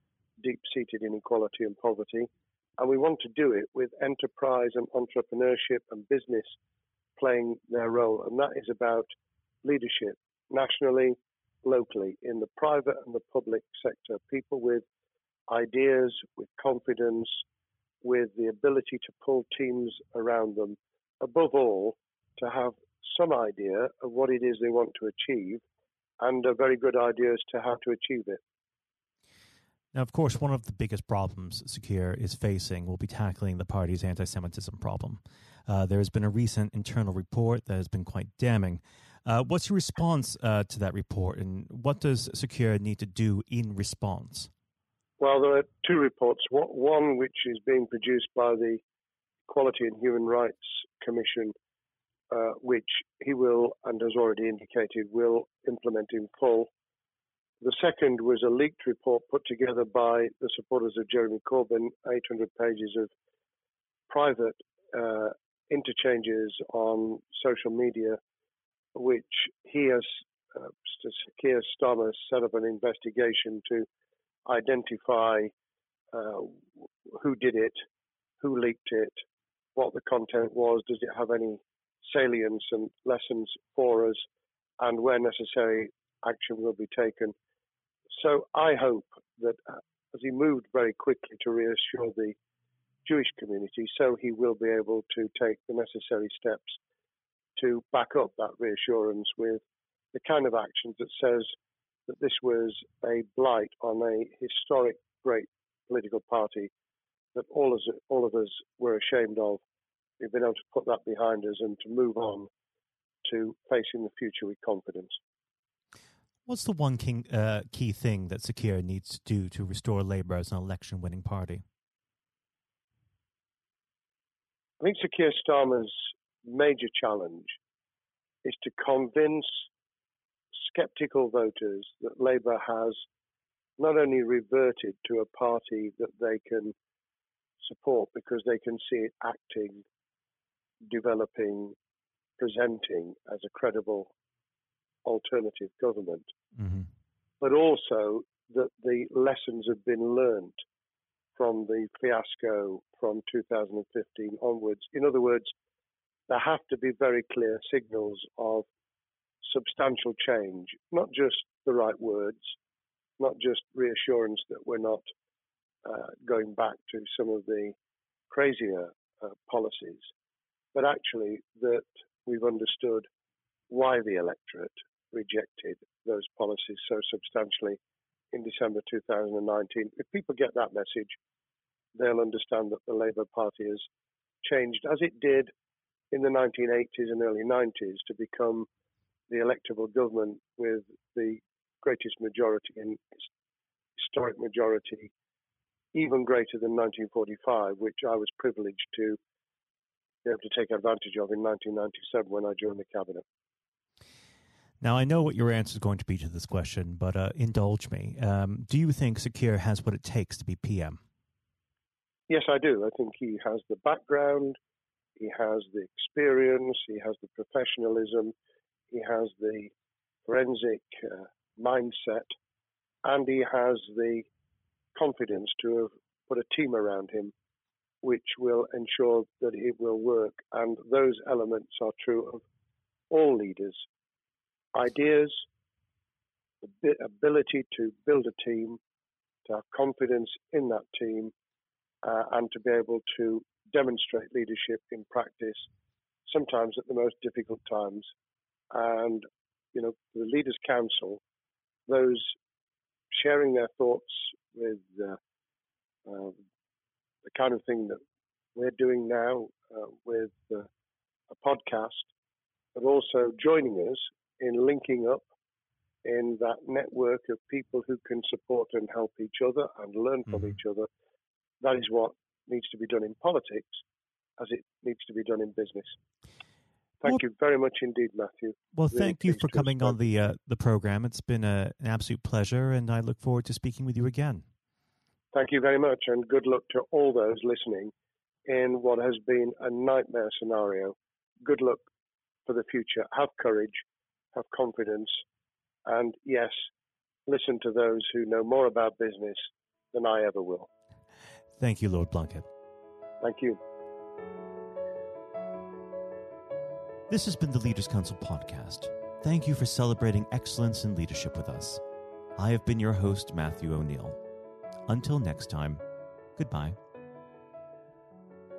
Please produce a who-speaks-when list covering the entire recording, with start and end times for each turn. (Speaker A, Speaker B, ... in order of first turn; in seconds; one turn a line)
Speaker A: 0.4-6.6
Speaker A: 7.2-9.1
Speaker A: 9.6-14.8
Speaker A: 15.5-17.4
Speaker A: 18.0-25.6
Speaker A: 26.2-28.4
Speaker B: 29.9-44.5
Speaker A: 45.2-48.8
Speaker A: 49.5-51.5
Speaker A: 52.3-56.7
Speaker A: 57.6-63.1
Speaker A: 64.1-68.2
Speaker A: 69.0-73.9
Speaker A: 74.5-75.5
Speaker A: 76.1-77.8
Speaker A: 78.4-79.1
Speaker A: 79.8-84.2
Speaker A: 84.8-87.3
Speaker A: 88.1-92.4
Speaker A: 93.0-96.8
Speaker A: 97.6-99.6
Speaker A: 100.1-101.5
Speaker A: 102.1-106.7
Speaker A: 107.3-109.6
Speaker A: 110.2-112.5
Speaker A: 113.2-115.2
Speaker B: 116.5-121.6
Speaker A: 124.8-127.6
Speaker A: 128.4-129.7
Speaker A: 130.6-133.0
Speaker A: 133.8-136.7
Speaker A: 137.6-139.8
Speaker A: 140.9-141.8
Speaker A: 142.4-144.1
Speaker A: 145.1-146.3
Speaker B: 146.6-146.9
Speaker A: 147.4-150.6
Speaker A: 151.4-155.5
Speaker A: 156.3-158.7
Speaker A: 159.4-162.6
Speaker A: 163.2-165.0
Speaker A: 165.8-167.8
Speaker A: 168.3-170.1
Speaker A: 170.7-173.1
Speaker A: 173.7-177.8
Speaker A: 178.3-181.2
Speaker A: 182.0-183.9
Speaker A: 184.4-185.5
Speaker A: 186.1-188.7
Speaker A: 189.3-193.0
Speaker A: 194.0-195.1
Speaker A: 195.9-199.2
Speaker A: 200.2-203.2
Speaker B: 204.8-211.0
Speaker A: 212.3-214.6
Speaker A: 215.2-218.3
Speaker A: 218.9-219.7
Speaker A: 220.2-222.3
Speaker A: 223.0-224.3
Speaker A: 224.9-227.3
Speaker A: 228.0-232.4
Speaker A: 233.1-233.8
Speaker A: 234.7-235.4
Speaker A: 236.6-238.8
Speaker A: 239.5-241.3
Speaker A: 242.0-245.7
Speaker A: 246.3-248.1
Speaker A: 248.7-251.2
Speaker A: 251.9-252.4
Speaker A: 253.1-255.2
Speaker A: 256.1-256.4
Speaker A: 257.3-258.0
Speaker A: 258.6-260.7
Speaker A: 261.3-262.1
Speaker A: 262.8-265.3
Speaker A: 266.1-270.9
Speaker A: 271.6-273.8
Speaker A: 274.4-276.0
Speaker A: 277.0-280.0
Speaker B: 278.8-284.4
Speaker A: 285.3-287.9
Speaker A: 288.5-291.9
Speaker A: 292.5-293.8
Speaker A: 294.3-295.2
Speaker A: 295.9-296.6
Speaker A: 297.3-300.7
Speaker B: 301.6-302.4
Speaker A: 303.2-303.6
Speaker C: 307.1-311.8
Speaker C: 312.4-314.2
Speaker C: 314.9-315.8
Speaker C: 316.4-316.8